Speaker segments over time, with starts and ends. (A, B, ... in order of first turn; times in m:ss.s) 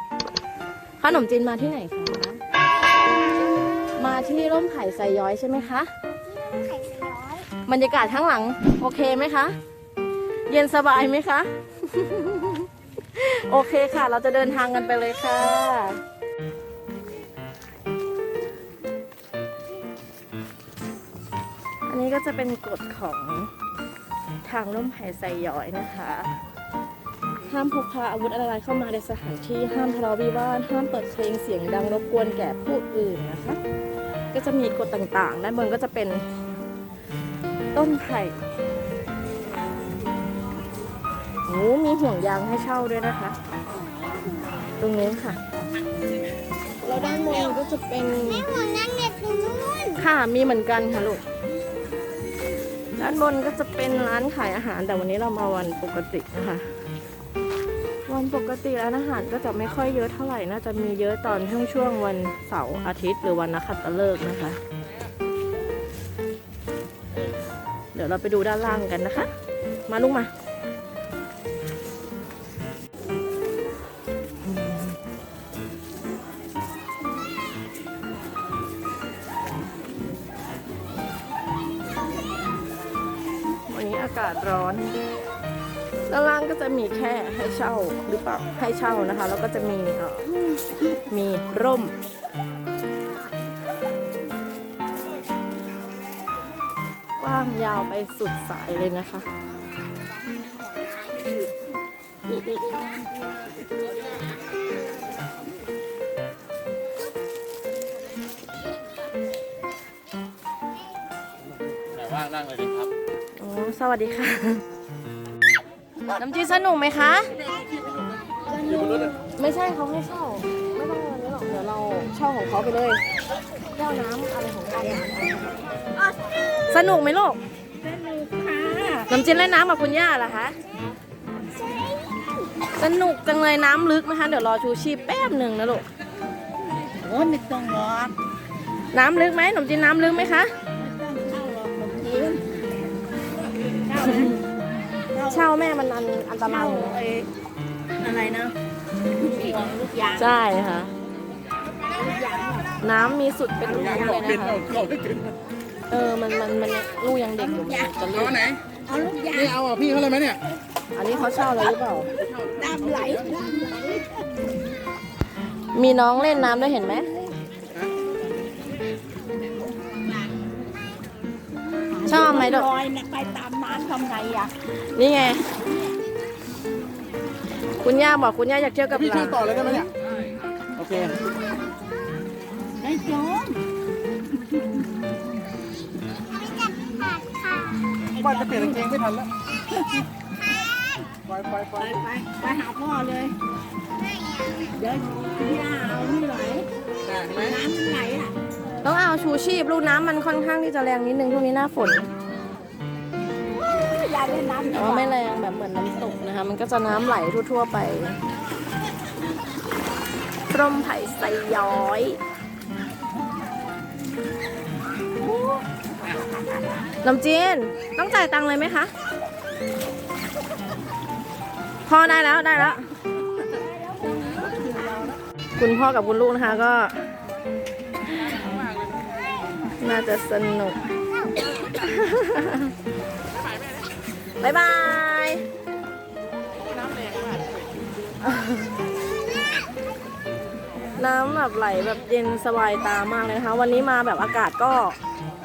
0:01.0-0:02.4 A
0:04.0-0:05.9 A
0:06.3-0:07.2 B
0:06.5-0:07.4 C
0:07.5-0:09.6 A
0:10.5-0:16.0 A
0:21.9-0:23.5 A
0:24.4-0:26.4 A
0:27.4-0:33.6 A
0:34.3-0:36.3 A
0:37.7-0:38.4 A
0:41.5-0:43.4 A
0:44.8-0:45.4 A
0:46.8-0:48.8 A
0:48.6-0:49.8 B
0:49.1-0:49.8 C
0:49.9-0:51.2 A
0:53.0-0:56.7 A
0:58.1-1:04.6 A
1:07.9-1:09.3 A
1:09.9-1:10.3 A
1:23.7-1:25.0 A
1:26.1-1:32.0 A
1:37.2-1:39.3 A
1:51.9-1:52.9 D
1:53.4-1:54.6 A
1:56.1-1:57.4 A
1:58.4-1:59.2 C
1:59.4-2:03.0 A
2:03.6-2:05.5 A
2:06.7-2:07.4 A
2:07.8-2:09.1 C
2:09.1-2:10.6 A
2:11.6-2:12.2 C
2:12.7-2:15.9 A
2:16.8-2:18.2 C
2:18.9-2:20.5 A
2:20.8-2:22.9 C
2:23.7-2:24.5 C
2:24.1-2:24.4 A
2:25.1-2:25.6 C
2:25.3-2:27.0 A
2:26.4-2:27.3 C
2:27.9-2:28.6 C
2:29.1-2:30.3 C
2:30.2-2:30.9 A
2:31.9-2:32.7 C
2:32.8-2:34.7 A
2:33.7-2:34.8 C
2:34.7-2:35.3 D
2:35.9-2:38.5 A
2:37.4-2:40.4 C
2:39.6-2:40.4 D
2:41.0-2:42.2 A
2:42.2-2:44.5 C
2:45.7-2:47.1 A
2:50.0-2:50.5 C
2:51.9-2:54.5 C
2:52.1-2:52.7 A
2:54.9-2:55.5 A
2:57.8-2:59.9 A
3:00.6-3:01.2 D
3:02.8-3:03.6 C
3:06.4-3:07.8 B
3:07.9-3:09.1 C
3:08.4-3:09.3 D
3:11.5-3:13.4 C
3:14.6-3:18.4 C
3:17.1-3:17.4 D
3:18.8-3:22.1 A
3:23.7-3:25.2 C
3:24.7-3:28.2 A
3:30.5-3:32.2 A
3:35.2-3:35.6 C
3:37.0-3:38.9 A
3:41.9-3:42.9 A
3:43.4-3:45.2 C
3:45.6-3:47.1 A
3:49.8-3:50.8 A
3:51.5-3:52.8 A
3:54.4-3:55.4 A
3:56.8-3:57.4 D
3:58.2-3:58.8 A
4:01.0-4:05.0 A